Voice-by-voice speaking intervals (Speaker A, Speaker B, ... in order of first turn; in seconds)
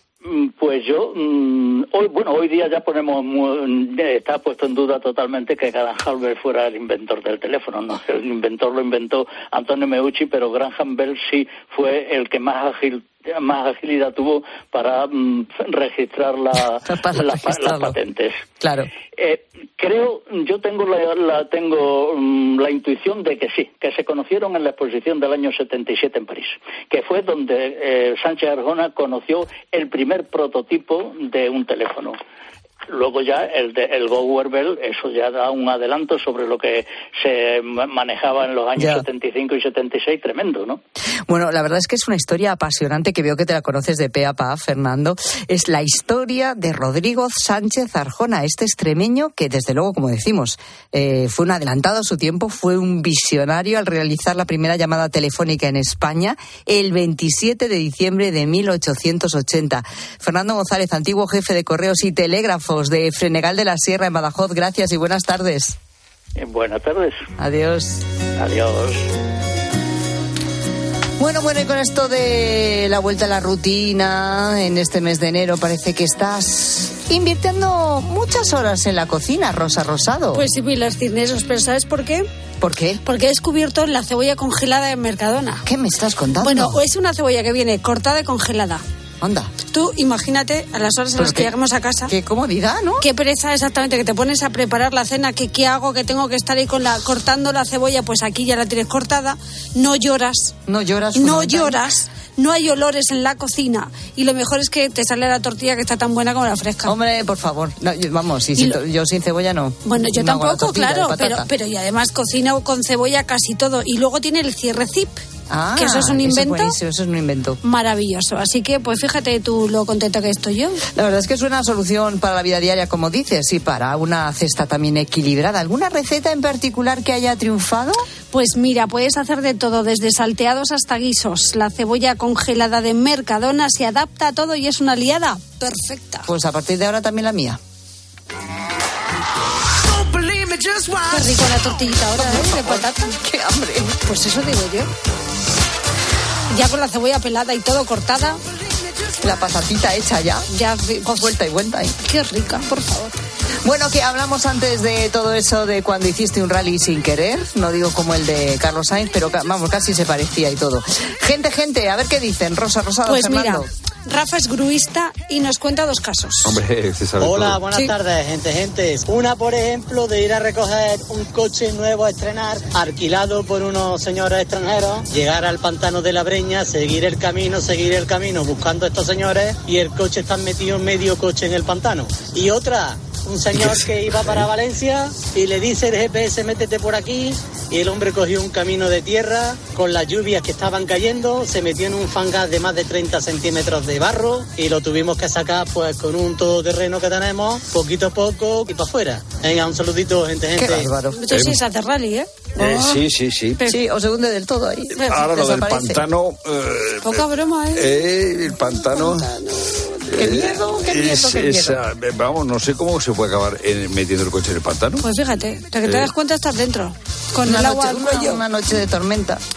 Speaker A: 0.2-18.4, 19.2-32.2, 32.9-40.8, 66.4-67.2, 68.4-69.1
Speaker B: 16.9-18.0, 18.6-18.9, 38.8-39.0, 41.3-65.8, 67.4-68.0, 71.2-80.5, 82.6-83.0, 85.7-86.8, 89.2-89.5, 91.2-91.5, 92.1-93.1, 100.7-101.9, 106.8-111.5, 115.5-117.6, 120.9-128.0, 136.3-137.6, 142.2-144.0, 149.2-150.5, 151.1-152.0, 153.6-163.7, 200.6-201.2, 203.7-206.0, 210.1-211.8, 217.4-219.4
Speaker C: 80.3-82.3, 83.0-85.6, 86.4-88.8, 89.7-92.1, 93.0-100.5, 101.2-107.0, 109.8-115.2, 115.8-116.8, 117.6-120.8, 128.3-136.3, 140.0-143.1, 144.1-144.9, 146.5-148.4, 150.5-151.3, 152.0-153.1, 163.1-166.6, 201.1-203.0, 207.0-207.9, 208.7-211.5, 215.0-218.4
Speaker D: 166.4-167.6, 201.3-201.6, 202.6-203.6, 205.1-209.3, 210.1-215.1, 215.8-216.1
Speaker E: 167.2-200.9